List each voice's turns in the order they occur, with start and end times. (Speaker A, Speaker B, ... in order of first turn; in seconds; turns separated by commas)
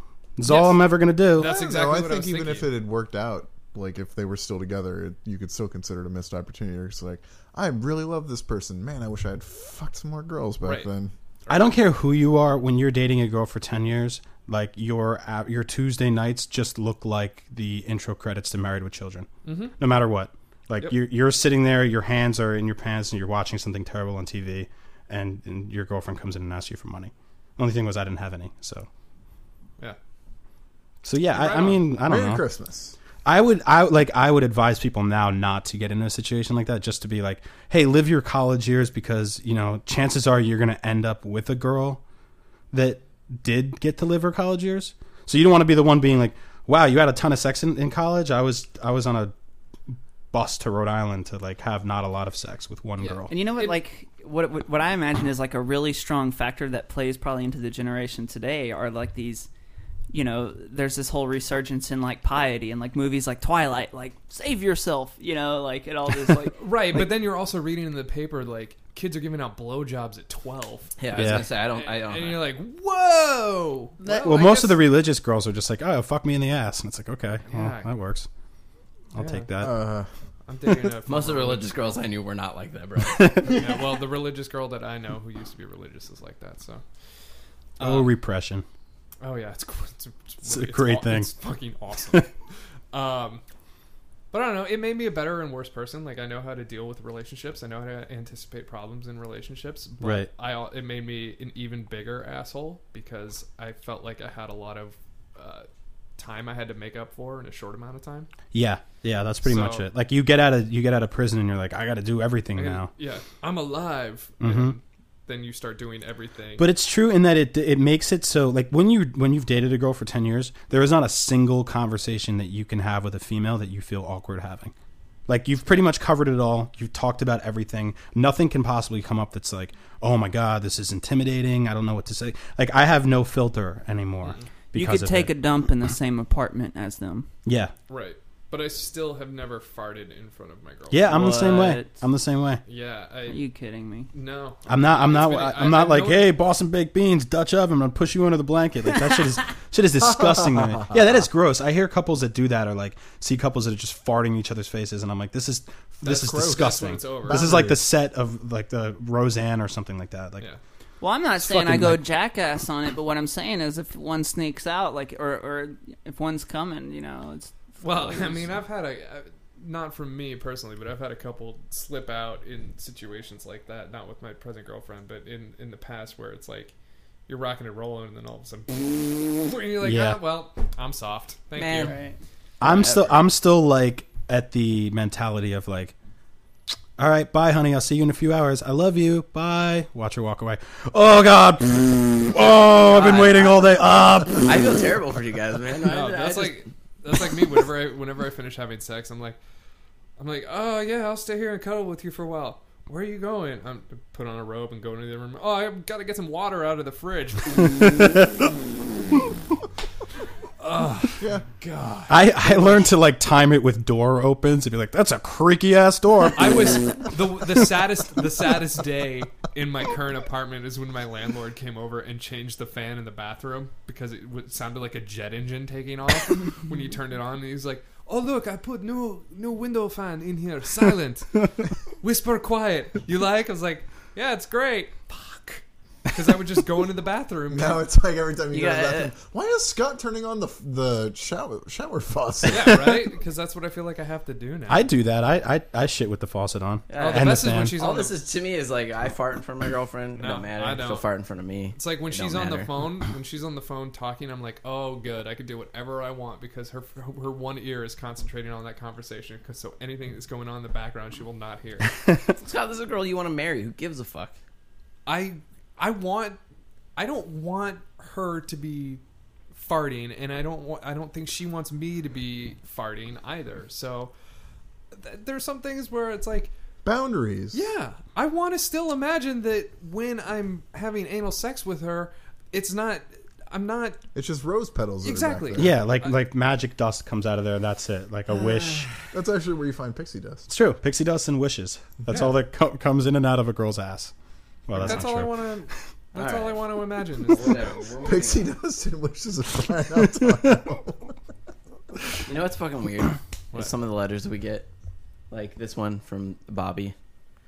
Speaker A: 0.4-1.6, Speaker B: 0.5-2.7, Speaker C: 1.4-11.1, Speaker B: 10.6-10.9, Speaker B: 11.5-11.7, Speaker A: 11.5-19.3, Speaker B: 19.4-19.8, Speaker A: 19.8-28.9, Speaker A: 31.0-32.4, Speaker B: 31.3-31.8, Speaker C: 32.0-33.0, Speaker A: 33.2-42.0, Speaker A: 42.7-49.3, Speaker A: 49.9-53.3, Speaker B: 53.0-53.8, Speaker D: 53.3-59.5, Speaker D: 60.1-66.6, Speaker B: 66.5-74.8, Speaker E: 71.0-72.5, Speaker A: 71.1-71.5, Speaker D: 74.0-74.5, Speaker A: 74.2-78.3, Speaker B: 77.5-77.9, Speaker A: 79.1-79.8, Speaker B: 79.2-79.5, Speaker C: 79.6-80.1, Speaker B: 80.5-81.8, Speaker E: 81.1-83.5, Speaker A: 83.0-83.6, Speaker B: 83.5-86.8, Speaker B: 87.8-88.1, Speaker A: 87.8-88.7, Speaker B: 89.2-92.3, Speaker A: 90.5-91.3, Speaker B: 92.9-93.4, Speaker B: 94.3-108.3, Speaker A: 100.0-100.3, Speaker A: 108.5-112.9, Speaker B: 109.4-109.9, Speaker B: 112.5-116.7, Speaker A: 114.4-114.8, Speaker A: 116.6-124.7, Speaker A: 125.3-135.3, Speaker B: 134.2-134.5, Speaker D: 134.7-137.3, Speaker A: 137.4-137.7, Speaker B: 137.9-141.8, Speaker A: 140.9-142.6, Speaker D: 141.1-141.9, Speaker B: 142.7-143.4, Speaker D: 143.3-144.1, Speaker B: 144.1-146.3, Speaker A: 144.7-160.5, Speaker B: 156.0-157.6, Speaker C: 156.1-156.7, Speaker C: 157.3-157.8, Speaker D: 161.0-168.5, Speaker A: 161.4-162.0, Speaker B: 167.8-176.7, Speaker B: 177.3-182.0, Speaker A: 179.8-180.2, Speaker E: 181.6-182.0, Speaker D: 181.7-182.2, Speaker E: 182.6-183.2, Speaker A: 182.6-185.9, Speaker A: 187.0-194.8, Speaker E: 192.8-193.8, Speaker E: 194.3-196.6, Speaker B: 195.8-199.4, Speaker B: 200.2-208.2, Speaker B: 210.6-212.8, Speaker A: 212.1-216.8, Speaker B: 216.3-237.8, Speaker C: 237.5-243.0, Speaker E: 238.5-239.1, Speaker B: 242.5-244.9, Speaker A: 244.7-247.8, Speaker E: 246.9-252.7, Speaker B: 247.0-248.2, Speaker B: 250.2-251.1, Speaker B: 251.7-262.0, Speaker E: 262.4-264.4, Speaker B: 265.1-266.4, Speaker B: 267.0-269.0, Speaker B: 269.5-274.1, Speaker B: 274.9-276.5, Speaker C: 276.8-277.6, Speaker B: 277.5-284.0, Speaker C: 284.1-285.8, Speaker B: 285.0-286.1, Speaker A: 285.6-288.9, Speaker E: 288.3-288.9, Speaker C: 289.1-290.5, Speaker A: 290.5-294.1, Speaker A: 294.7-295.5, Speaker B: 294.7-297.8, Speaker E: 296.1-298.5, Speaker C: 298.0-301.1, Speaker E: 302.3-304.7, Speaker E: 305.3-306.9